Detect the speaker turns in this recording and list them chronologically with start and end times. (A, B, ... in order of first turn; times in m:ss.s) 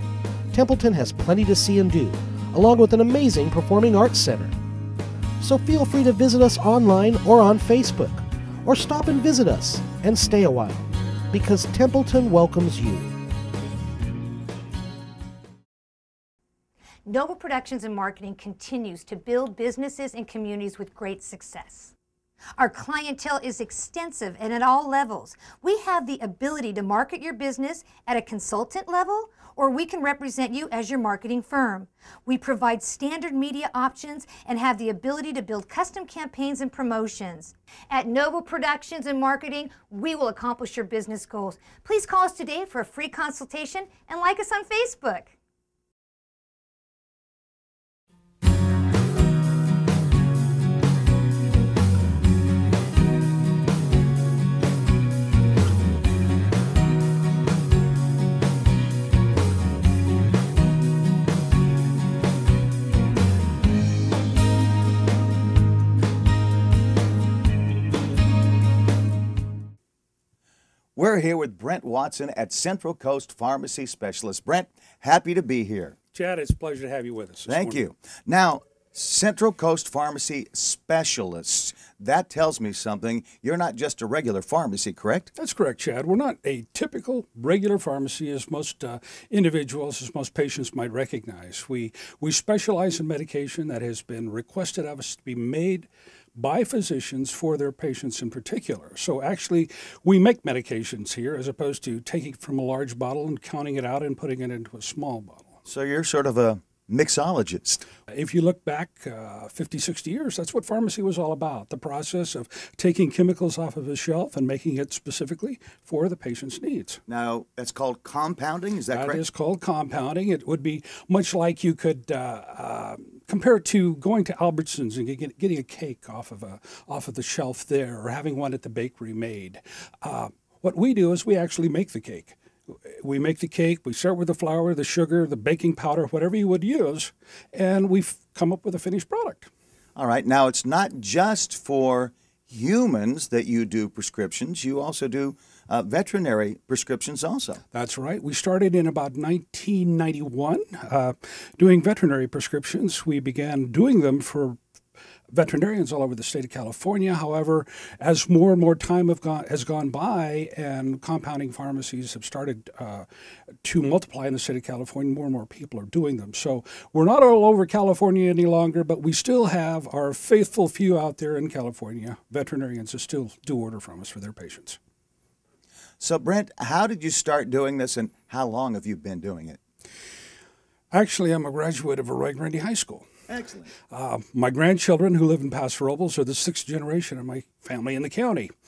0:00.5-0:04.6 A
0:05.4-0:13.1 A
0:17.0-0:21.9 B
0:22.6-0:45.3 B
1:11.0-1:16.0 C
1:16.1-1:17.8 D
1:17.5-1:25.3 C
1:25.4-1:45.6 D
1:45.7-1:47.8 C
1:48.1-1:57.0 D
1:57.1-1:59.2 C
1:58.9-2:19.5 D
2:20.0-2:27.6 C
2:27.7-2:34.6 D
2:35.3-2:43.1 D
2:43.6-2:54.8 D
2:56.0-2:59.6 C
3:00.9-3:03.1 D
3:03.3-3:03.7 C
3:03.9-3:08.5 D